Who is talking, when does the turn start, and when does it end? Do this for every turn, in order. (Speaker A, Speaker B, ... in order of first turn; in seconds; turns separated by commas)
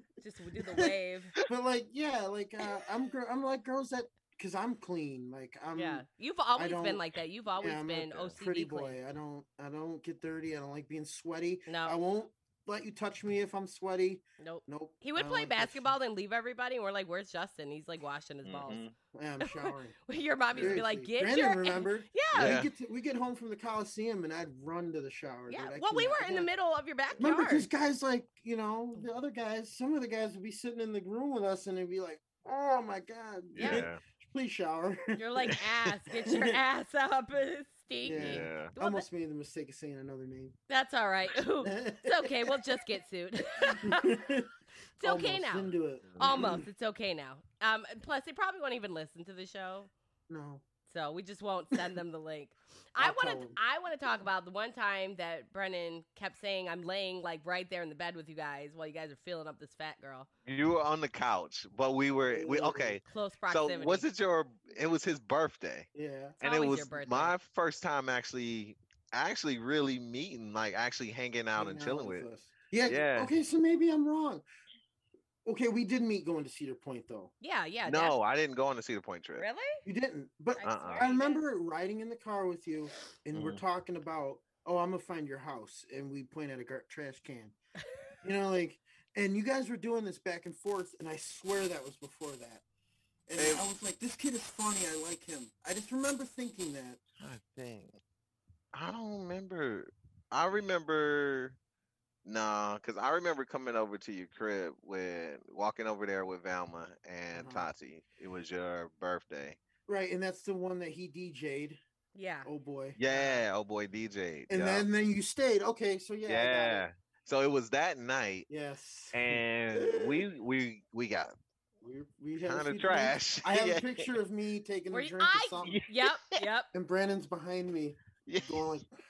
Speaker A: 0.2-1.3, Speaker B: 0.6-0.9, Speaker B: 1.4-7.0, Speaker A: 5.7-9.0, Speaker B: 7.6-15.9, Speaker A: 11.7-12.0, Speaker A: 14.4-18.8, Speaker C: 18.4-18.9, Speaker B: 19.1-20.0, Speaker A: 19.4-22.6, Speaker B: 20.5-26.5, Speaker C: 20.6-20.8, Speaker C: 22.3-22.7, Speaker A: 25.5-27.7, Speaker B: 27.2-35.6, Speaker C: 33.5-34.0, Speaker A: 33.6-33.9, Speaker A: 35.1-39.0, Speaker B: 36.1-36.6, Speaker B: 38.0-40.5, Speaker C: 38.1-38.7, Speaker A: 40.7-44.0, Speaker B: 41.6-42.8, Speaker B: 43.6-46.7, Speaker A: 45.0-49.9, Speaker C: 46.1-46.4, Speaker B: 50.3-50.6, Speaker A: 50.9-60.3, Speaker B: 53.0-53.6, Speaker C: 60.5-65.9, Speaker B: 62.3-63.0, Speaker A: 63.0-64.0, Speaker B: 65.9-66.4, Speaker C: 66.4-72.2, Speaker A: 66.4-67.3, Speaker B: 71.6-74.4, Speaker C: 72.8-73.3, Speaker B: 75.4-77.3, Speaker A: 77.4-78.2, Speaker C: 77.8-79.5, Speaker A: 79.3-79.8, Speaker B: 79.8-87.5, Speaker A: 80.6-81.4, Speaker C: 80.6-81.1, Speaker C: 83.3-83.6, Speaker B: 88.2-92.6, Speaker B: 93.3-97.0, Speaker C: 93.4-93.7, Speaker C: 97.2-98.0, Speaker C: 98.7-101.6, Speaker C: 102.2-109.6, Speaker B: 107.3-107.7, Speaker B: 109.9-111.8, Speaker A: 112.1-112.5, Speaker B: 112.4-113.4, Speaker C: 113.0-114.9, Speaker B: 114.5-116.8, Speaker C: 116.3-118.5, Speaker B: 118.5-120.2, Speaker C: 119.1-121.3, Speaker B: 121.8-125.8, Speaker C: 122.4-124.1, Speaker A: 124.9-126.7, Speaker C: 125.6-126.4, Speaker B: 126.7-128.9, Speaker C: 128.2-128.7